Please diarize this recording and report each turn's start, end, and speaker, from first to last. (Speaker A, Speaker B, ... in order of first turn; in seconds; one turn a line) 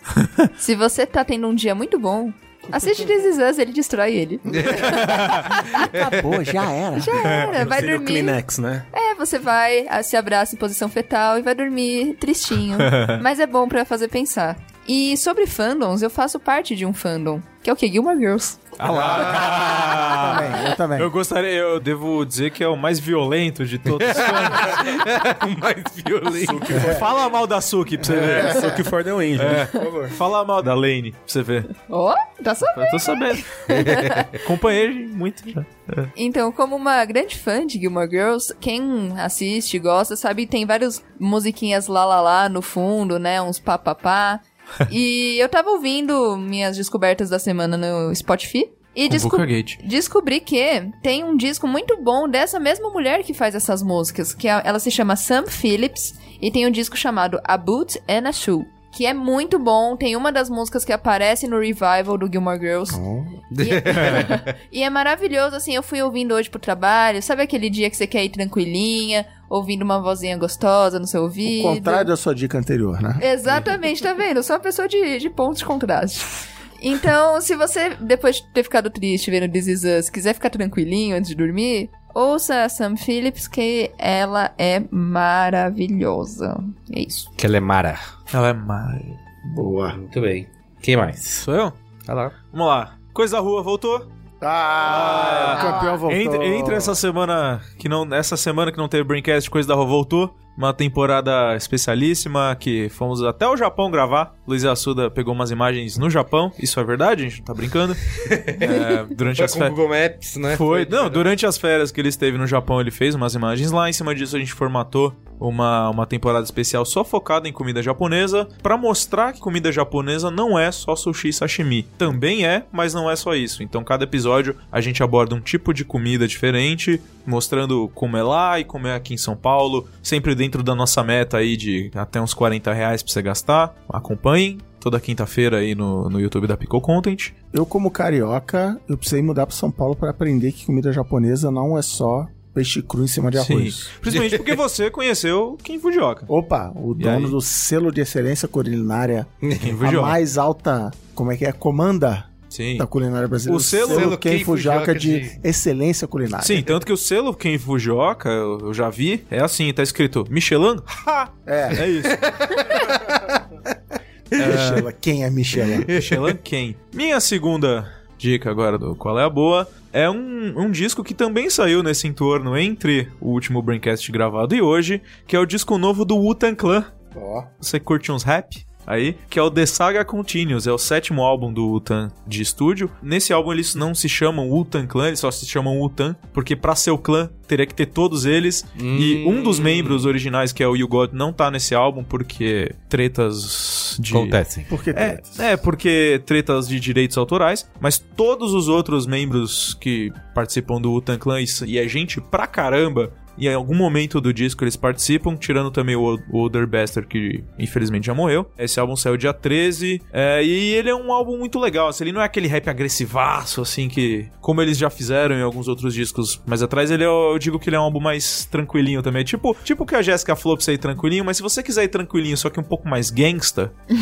Speaker A: 0.2-0.5
Speaker B: 0.6-5.9
Speaker C: 4.5-6.2
Speaker A: 5.0-5.5
Speaker D: 5.9-7.4
Speaker B: 7.0-8.4
Speaker A: 7.1-7.5
Speaker E: 7.5-8.9
Speaker B: 8.9-18.6
Speaker A: 12.8-13.2
Speaker A: 18.8-24.8
Speaker C: 19.0-19.2
Speaker D: 20.1-21.1
Speaker C: 23.9-26.9
Speaker E: 26.3-27.3
Speaker A: 26.7-28.8
Speaker D: 26.7-27.0
Speaker E: 28.1-30.1
Speaker D: 28.5-28.8
Speaker A: 29.4-31.7
Speaker B: 31.9-34.4
Speaker A: 32.7-36.1
Speaker C: 33.7-34.2
Speaker B: 36.2-63.0
Speaker A: 49.1-49.8
Speaker D: 62.9-63.4
Speaker C: 63.5-64.5
Speaker B: 63.6-72.1
Speaker D: 71.5-73.2
Speaker B: 73.2-87.3
Speaker C: 87.4-88.0
Speaker A: 88.3-89.2
Speaker D: 89.5-90.0
Speaker C: 89.9-91.5
Speaker A: 91.4-91.8
Speaker C: 92.1-92.3
Speaker A: 92.5-94.1
Speaker D: 94.4-97.0
Speaker A: 94.8-109.8
Speaker B: 95.5-96.0
Speaker C: 108.2-111.3
Speaker A: 110.5-137.3
Speaker D: 137.5-143.8
Speaker A: 143.3-146.3
Speaker C: 144.1-144.6
Speaker D: 146.3-156.7
Speaker A: 147.0-147.4
Speaker C: 149.4-149.7
Speaker A: 149.6-150.2
Speaker A: 152.5-152.9
Speaker A: 153.5-154.2
Speaker C: 153.9-155.4
Speaker A: 156.4-162.2
Speaker D: 161.5-161.8
Speaker C: 162.1-163.4
Speaker A: 164.4-164.9
Speaker D: 164.4-165.9
Speaker A: 165.8-176.9
Speaker C: 165.9-166.2
Speaker D: 177.1-177.5
Speaker A: 177.6-194.4
Speaker C: 188.8-190.1
Speaker C: 194.1-194.7
Speaker D: 194.7-195.5
Speaker A: 194.9-223.8